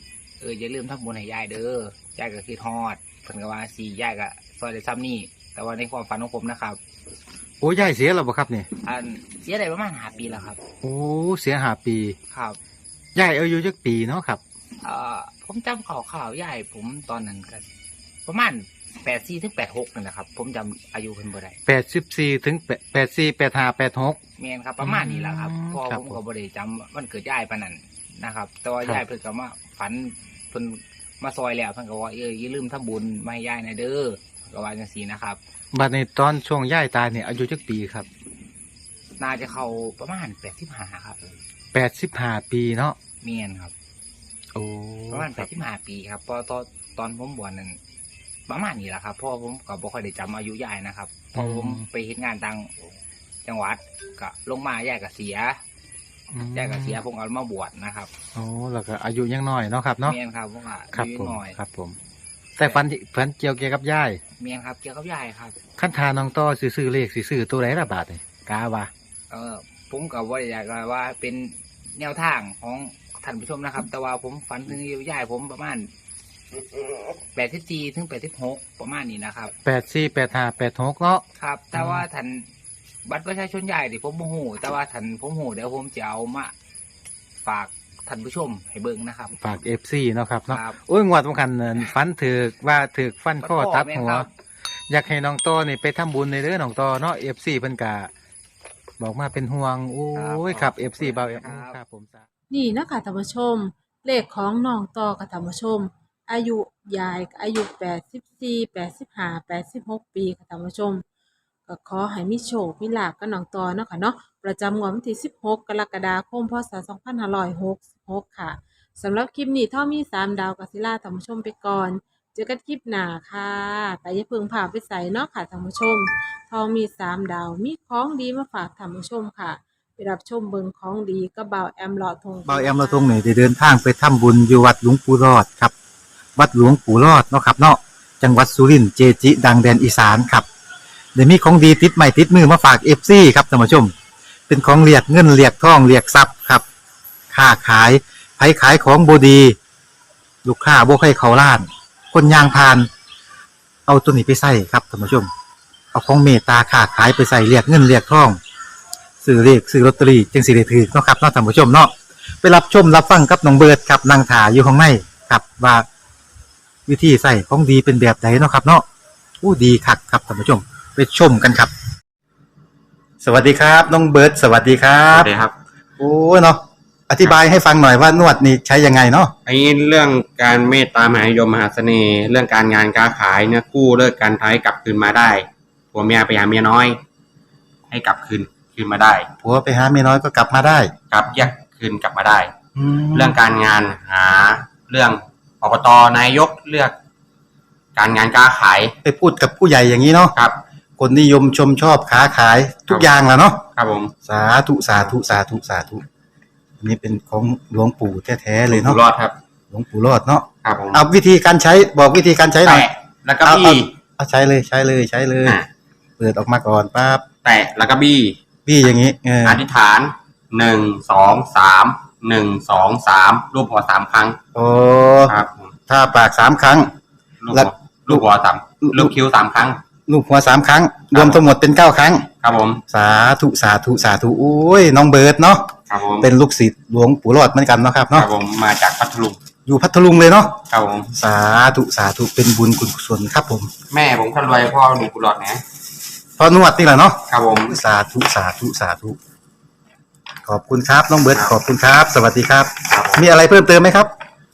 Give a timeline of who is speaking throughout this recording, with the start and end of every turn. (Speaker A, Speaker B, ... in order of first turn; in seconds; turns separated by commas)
Speaker A: 0.4-6.8, Speaker B: 7.6-8.7, Speaker A: 8.8-10.6, Speaker B: 10.8-12.2, Speaker A: 12.3-12.6, Speaker B: 13.1-14.4, Speaker A: 14.8-17.6, Speaker A: 18.2-21.6, Speaker B: 21.7-24.2, Speaker A: 24.4-35.4, Speaker B: 24.8-26.2, Speaker B: 35.7-38.1, Speaker A: 39.2-41.4, Speaker B: 41.7-43.0, Speaker A: 43.2-43.7, Speaker B: 44.5-45.5, Speaker A: 45.1-47.8, Speaker A: 48.5-52.9, Speaker B: 51.4-51.9, Speaker A: 53.4-55.6, Speaker B: 56.3-57.0, Speaker A: 56.5-58.1, Speaker B: 58.4-60.2, Speaker A: 60.0-61.6, Speaker B: 60.9-62.0, Speaker B: 62.6-64.2, Speaker A: 64.4-65.6, Speaker B: 65.8-68.9, Speaker A: 69.3-75.9, Speaker A: 77.3-79.5, Speaker B: 79.6-81.2, Speaker A: 81.4-82.5, Speaker B: 81.8-82.0, Speaker A: 83.0-86.5, Speaker A: 87.4-89.4, Speaker B: 89.4-94.3, Speaker A: 90.5-90.8, Speaker A: 93.4-94.3, Speaker B: 94.9-98.1, Speaker B: 99.0-102.2, Speaker A: 100.1-101.8, Speaker C: 102.5-111.0, Speaker C: 111.7-133.2, Speaker B: 132.5-135.7, Speaker B: 136.4-140.5, Speaker B: 141.1-143.9, Speaker B: 144.5-146.6, Speaker B: 147.3-149.6, Speaker B: 150.4-152.9, Speaker B: 153.9-155.3, Speaker B: 155.9-158.4, Speaker B: 159.2-165.9, Speaker B: 166.9-168.8, Speaker B: 169.4-171.7, Speaker B: 173.2-175.3, Speaker D: 175.1-175.5, Speaker B: 176.0-179.3, Speaker D: 179.4-187.0, Speaker D: 187.9-189.3, Speaker B: 189.4-190.9, Speaker D: 191.1-192.5, Speaker B: 192.8-193.2, Speaker D: 193.1-196.9, Speaker D: 197.9-198.9, Speaker B: 199.0-200.3, Speaker B: 201.0-203.6, Speaker D: 203.8-204.1, Speaker B: 204.2-206.0, Speaker B: 206.8-209.0, Speaker D: 208.7-209.4, Speaker B: 209.7-212.8, Speaker D: 210.6-211.0, Speaker D: 212.6-213.9, Speaker B: 213.4-215.6, Speaker B: 216.2-217.2, Speaker D: 217.4-218.4, Speaker B: 218.7-219.6, Speaker D: 219.4-224.4, Speaker B: 224.5-225.3, Speaker D: 225.2-225.8, Speaker B: 225.9-226.9, Speaker D: 227.4-229.8, Speaker B: 227.5-228.2, Speaker B: 230.1-232.3, Speaker D: 231.1-231.5, Speaker D: 232.4-232.8, Speaker B: 232.9-235.6, Speaker D: 235.9-236.3, Speaker B: 236.2-238.3, Speaker D: 238.1-239.4, Speaker B: 239.7-240.5, Speaker D: 240.7-241.1, Speaker B: 241.1-243.7, Speaker D: 243.9-245.6, Speaker B: 246.4-249.2, Speaker D: 247.3-247.8, Speaker B: 250.5-254.1, Speaker D: 252.9-253.3